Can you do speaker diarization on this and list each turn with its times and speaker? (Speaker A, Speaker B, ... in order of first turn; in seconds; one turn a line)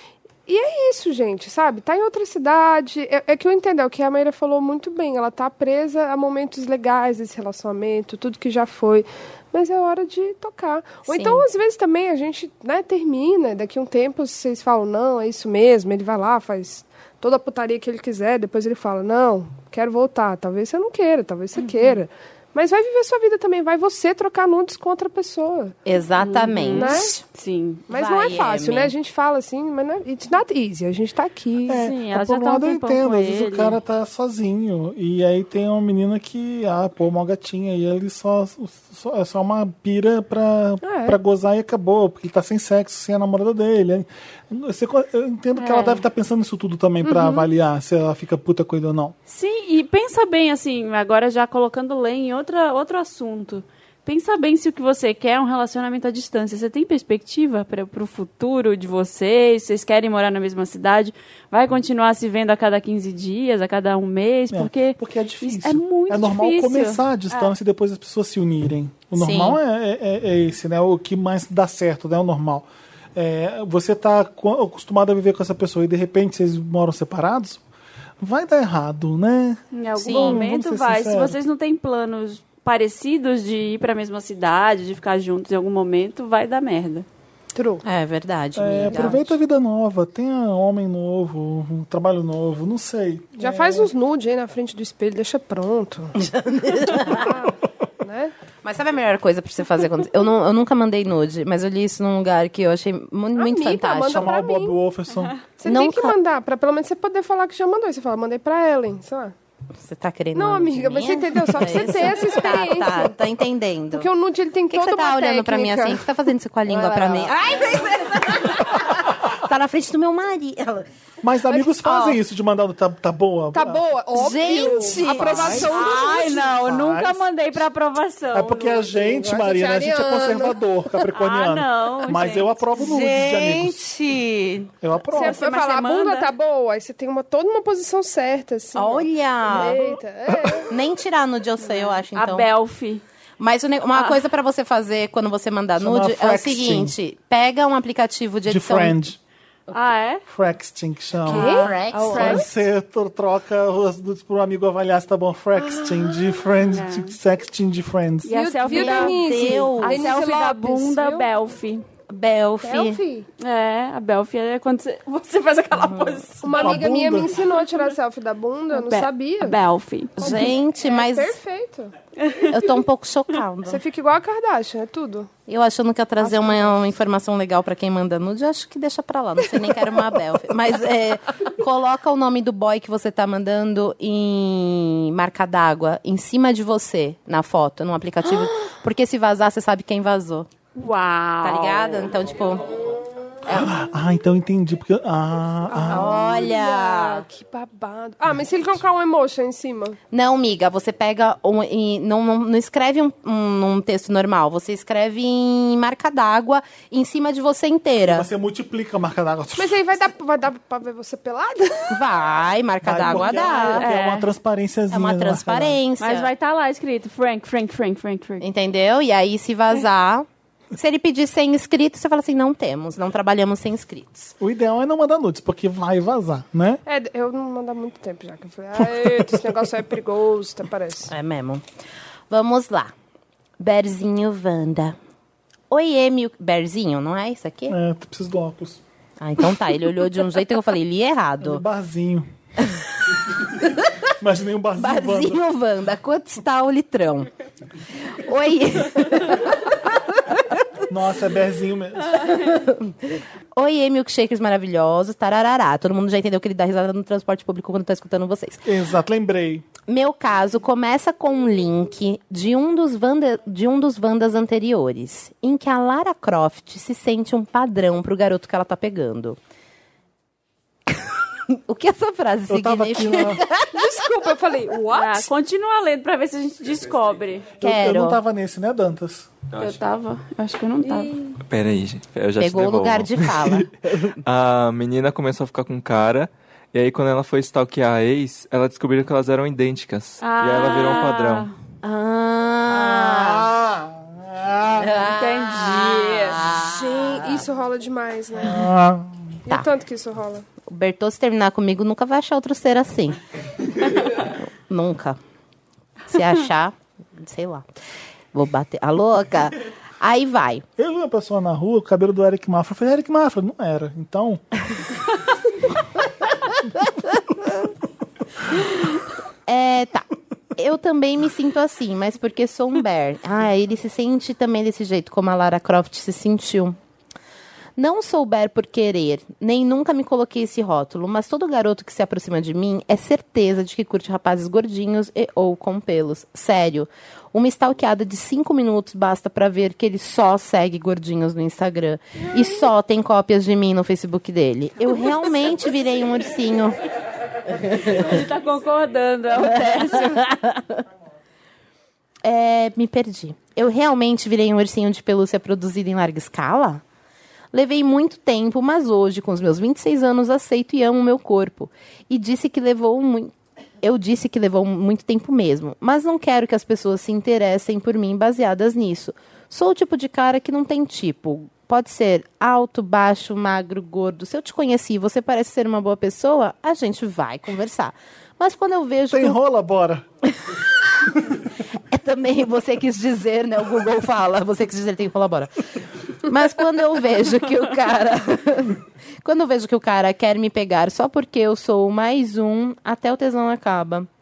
Speaker A: 0.5-25.7
Speaker B: 11.1-11.4
Speaker C: 21.6-21.9
Speaker B: 25.9-27.2
Speaker C: 26.2-27.9
Speaker A: 26.7-27.2
Speaker A: 27.9-31.8
Speaker B: 27.9-28.9
Speaker D: 31.6-49.1
Speaker C: 31.7-33.8
Speaker A: 40.8-41.2
Speaker C: 45.5-46.0
Speaker A: 47.0-47.5
Speaker C: 49.3-67.5
Speaker D: 64.5-77.6
Speaker B: 69.1-69.6
Speaker D: 78.2-81.4
Speaker C: 79.7-87.0
Speaker B: 80.0-80.4
Speaker A: 87.5-87.8
Speaker B: 87.8-89.3
Speaker D: 88.5-93.9
Speaker A: 93.4-96.2
Speaker B: 96.2-97.3
Speaker A: 96.9-98.3
Speaker B: 98.6-104.3
Speaker A: 103.3-104.8
Speaker D: 104.0-105.3
Speaker A: 105.6-109.3
Speaker B: 105.6-106.1
Speaker B: 109.8-114.1
Speaker A: 110.3-113.2
Speaker A: 113.9-116.0
Speaker B: 114.7-120.9
Speaker A: 116.7-118.3
Speaker D: 121.2-123.8
Speaker A: 121.5-122.1
Speaker A: 123.5-126.5
Speaker B: 124.1-125.9
Speaker D: 124.9-127.2
Speaker C: 125.6-128.9
Speaker D: 128.3-133.8
Speaker A: 128.9-130.6
Speaker C: 131.1-132.6
Speaker B: 132.7-134.7
Speaker D: 134.8-135.4
Speaker A: 135.1-140.7
Speaker C: 135.1-136.3
Speaker B: 138.7-139.9
Speaker D: 139.6-140.7
Speaker B: 140.7-142.5
Speaker C: 141.6-143.0
Speaker B: 143.4-149.0
Speaker C: 143.9-144.2
Speaker D: 145.8-146.9
Speaker D: 148.5-149.2
Speaker C: 149.7-150.2
Speaker D: 150.3-158.4
Speaker B: 151.2-152.4
Speaker A: 151.2-152.5
Speaker C: 151.6-152.4
Speaker A: 155.7-156.3
Speaker C: 156.7-157.2
Speaker C: 158.2-161.8
Speaker A: 158.3-161.3
Speaker B: 158.7-160.2
Speaker B: 162.1-163.0
Speaker A: 162.6-163.3
Speaker C: 163.4-166.8
Speaker B: 165.8-166.2
Speaker A: 166.4-169.6
Speaker D: 166.5-167.3
Speaker C: 168.7-170.4
Speaker B: 170.2-171.4
Speaker A: 170.2-171.9
Speaker C: 172.2-172.5
Speaker B: 172.4-173.8
Speaker A: 173.7-175.3
Speaker B: 175.5-190.5
Speaker A: 176.2-176.8
Speaker C: 190.8-192.1
Speaker B: 191.4-193.7
Speaker D: 193.4-196.2
Speaker A: 195.7-200.0
Speaker B: 195.9-197.2
Speaker B: 200.1-208.3
Speaker D: 208.0-210.0
Speaker A: 209.6-212.0
Speaker B: 211.9-213.8
Speaker D: 212.8-215.8
Speaker C: 213.4-214.3
Speaker B: 214.9-216.3
Speaker C: 216.0-218.4
Speaker B: 218.4-224.3
Speaker D: 224.4-226.8
Speaker A: 226.8-231.1
Speaker D: 228.8-229.4
Speaker B: 231.1-231.6
Speaker B: 232.3-232.9
Speaker B: 233.6-234.9
Speaker B: 235.7-237.8
Speaker D: 237.7-238.8
Speaker B: 239.2-241.6
Speaker D: 241.4-242.3
Speaker B: 243.6-243.9
Speaker D: 244.2-245.4
Speaker B: 244.8-247.3
Speaker B: 248.1-249.8
Speaker D: 250.9-252.4
Speaker B: 252.2-258.6
Speaker D: 258.6-259.7
Speaker B: 259.9-269.4
Speaker B: 271.5-273.9
Speaker D: 272.5-273.4
Speaker A: 273.7-275.3
Speaker C: 274.9-277.5
Speaker D: 277.6-279.3
Speaker B: 277.6-278.2
Speaker E: 279.5-279.8
Speaker C: 279.6-281.1
Speaker A: 280.8-281.3
Speaker E: 281.4-283.7
Speaker B: 282.4-284.1
Speaker E: 284.2-291.5
Speaker C: 290.2-291.5
Speaker B: 291.8-293.5
Speaker D: 292.7-295.0
Speaker B: 294.8-297.4
Speaker C: 295.1-296.4
Speaker A: 296.5-298.7
Speaker D: 298.4-299.2
Speaker A: 299.4-300.4
Speaker B: 300.7-303.2
Speaker B: 303.9-305.2
Speaker B: 306.1-307.6
Speaker B: 308.3-310.6
Speaker D: 310.8-314.4
Speaker B: 319.5-326.8
Speaker B: 327.8-346.8
Speaker B: 347.6-348.1
Speaker C: 347.8-350.2
Speaker B: 349.4-350.7
Speaker B: 352.2-356.8
Speaker B: 357.5-379.4
Speaker D: 379.1-380.0
Speaker B: 380.5-381.2
Speaker B: 381.9-385.7
Speaker B: 386.2-394.1